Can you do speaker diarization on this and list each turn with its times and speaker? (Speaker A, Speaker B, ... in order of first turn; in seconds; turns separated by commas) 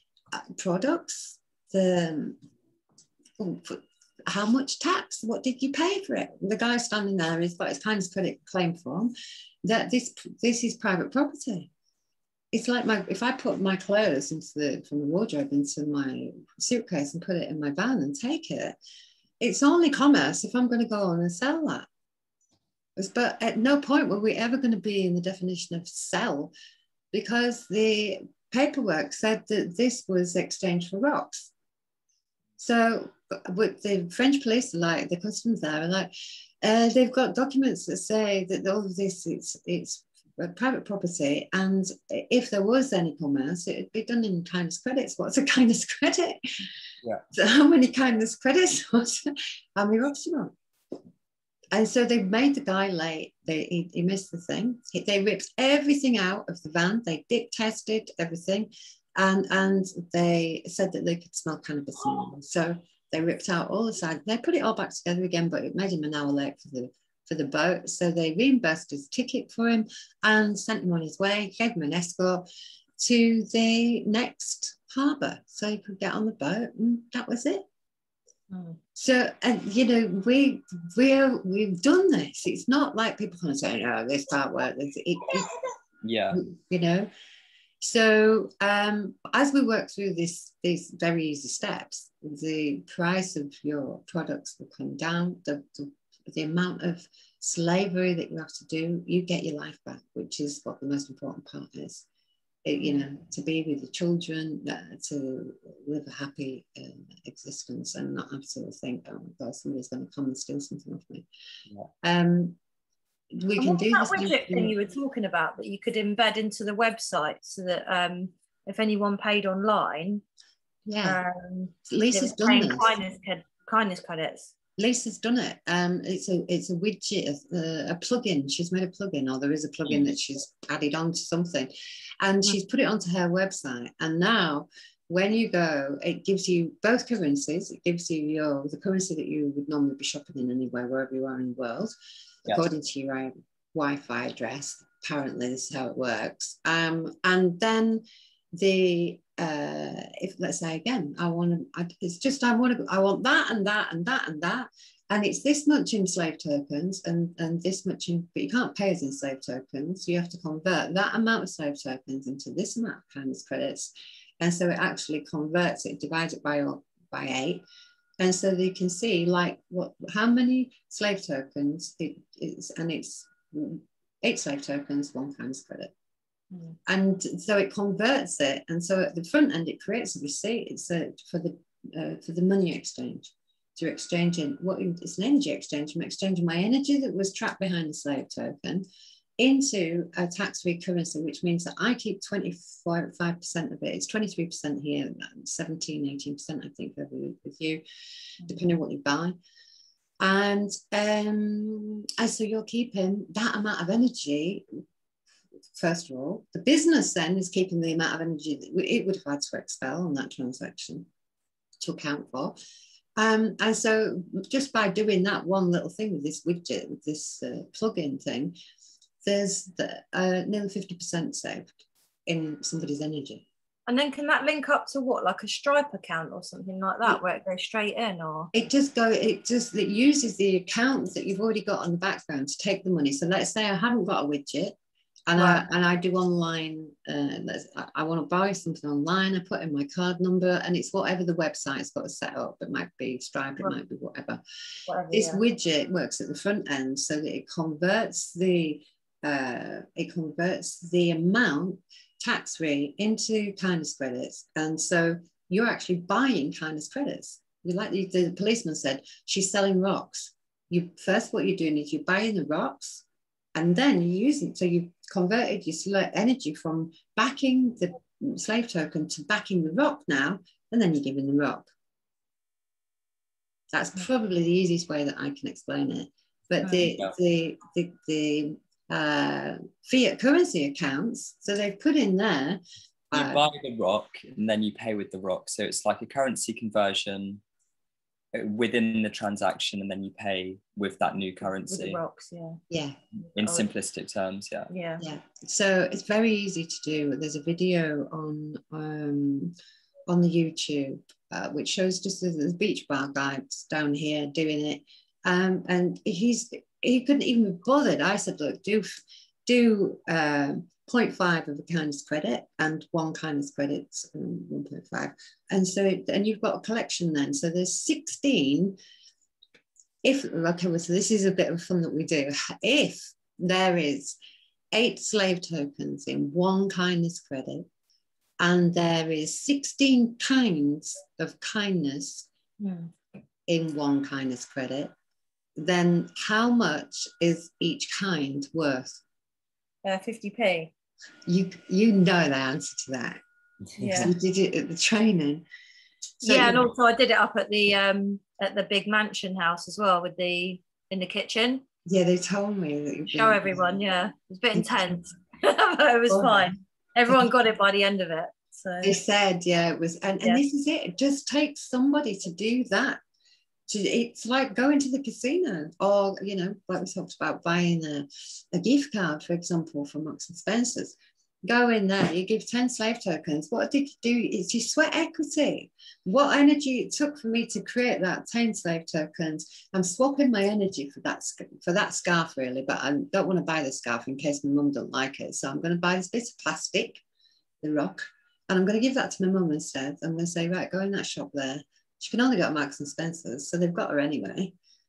Speaker A: 0.3-2.4, Speaker A: 3.4-9.1, Speaker A: 9.6-11.7, Speaker A: 12.5-18.8, Speaker A: 19.4-21.9, Speaker A: 23.0-26.5, Speaker A: 27.1-31.5, Speaker A: 32.6-36.1, Speaker A: 36.6-46.7, Speaker A: 47.3-50.5, Speaker A: 51.7-72.5, Speaker A: 73.0-77.6, Speaker B: 78.5-78.8, Speaker A: 79.0-85.5, Speaker C: 86.0-86.4, Speaker A: 86.3-87.1, Speaker A: 87.8-102.0, Speaker A: 102.7-111.3, Speaker A: 112.0-112.6, Speaker A: 113.3-114.7, Speaker B: 113.6-120.2, Speaker A: 120.9-121.2, Speaker B: 121.0-124.5, Speaker A: 121.9-122.9, Speaker A: 124.8-141.9, Speaker A: 142.5-148.0, Speaker A: 148.6-167.6, Speaker A: 168.2-175.9, Speaker B: 176.5-176.8, Speaker A: 176.9-188.8, Speaker A: 189.4-197.8, Speaker A: 198.4-199.4, Speaker A: 200.2-204.7, Speaker A: 205.8-211.1, Speaker A: 211.8-212.6, Speaker A: 213.2-218.6, Speaker A: 219.2-223.4, Speaker B: 223.9-228.5, Speaker A: 228.5-234.8, Speaker A: 235.3-244.4, Speaker B: 235.4-235.6, Speaker B: 244.9-245.4, Speaker A: 245.1-271.7, Speaker A: 273.7-283.4, Speaker C: 276.8-277.2, Speaker C: 283.1-287.4, Speaker C: 288.3-292.0, Speaker B: 291.6-292.6, Speaker A: 292.7-293.0, Speaker B: 293.2-293.7, Speaker C: 293.4-294.7, Speaker B: 294.7-295.0, Speaker A: 295.0-299.5, Speaker A: 300.1-308.9, Speaker A: 309.5-318.8, Speaker A: 320.0-324.2, Speaker A: 324.7-327.7, Speaker A: 328.4-332.3, Speaker B: 332.6-332.9, Speaker A: 333.5-334.9, Speaker A: 335.6-339.0, Speaker B: 339.9-340.7, Speaker A: 341.3-343.2, Speaker C: 343.8-344.1, Speaker B: 343.8-344.1, Speaker A: 344.0-345.4, Speaker A: 346.2-346.6, Speaker B: 346.2-351.6, Speaker A: 351.9-353.8, Speaker B: 353.1-358.9, Speaker A: 354.5-355.0, Speaker A: 356.1-356.5, Speaker A: 358.8-363.0, Speaker A: 363.7-387.0, Speaker A: 387.6-394.6